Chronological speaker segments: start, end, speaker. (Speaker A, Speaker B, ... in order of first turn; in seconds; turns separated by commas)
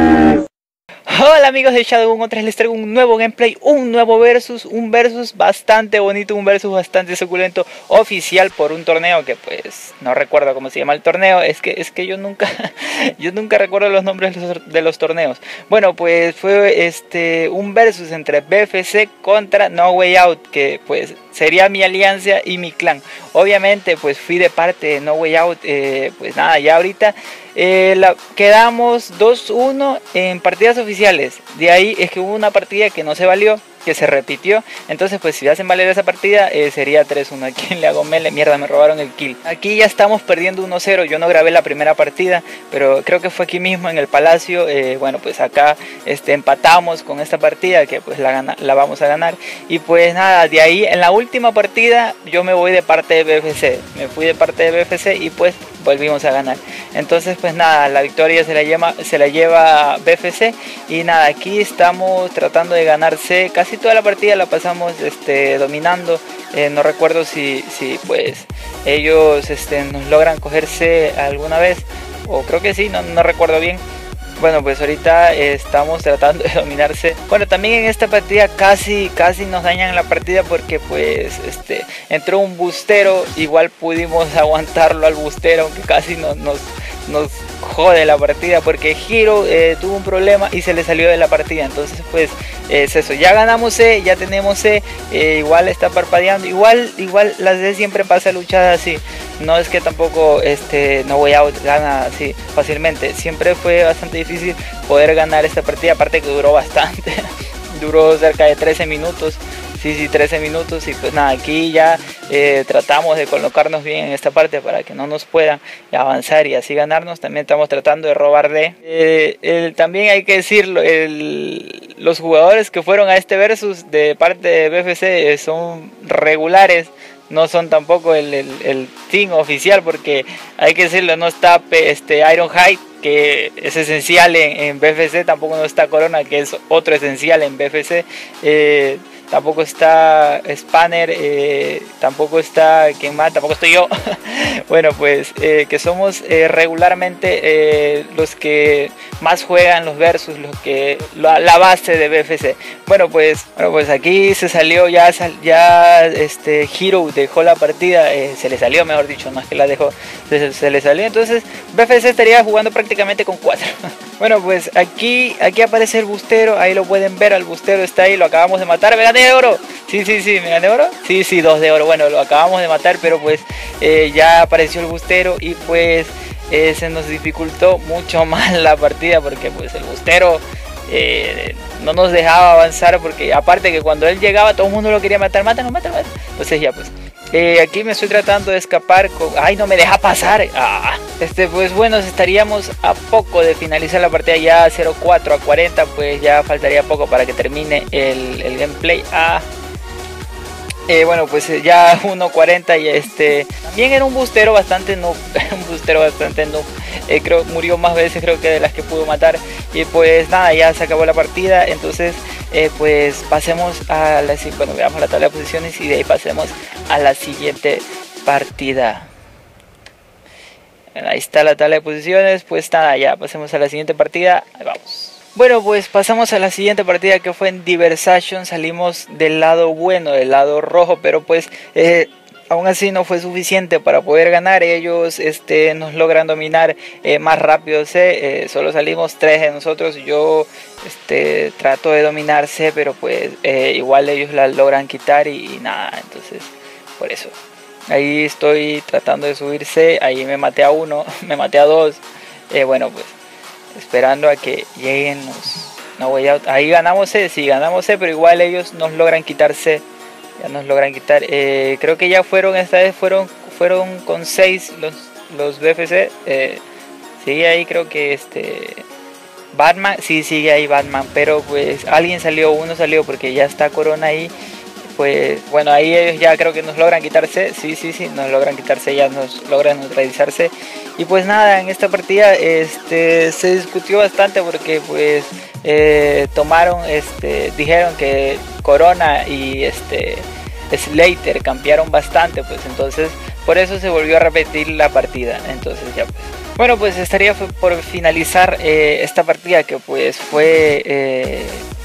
Speaker A: 1.1-73.8, Speaker A: 74.4-199.5, Speaker A: 200.9-219.1, Speaker A: 220.9-247.3, Speaker A: 247.9-253.2, Speaker A: 253.7-259.8, Speaker A: 260.4-266.6, Speaker A: 267.2-268.8, Speaker A: 269.5-274.3, Speaker A: 274.9-301.6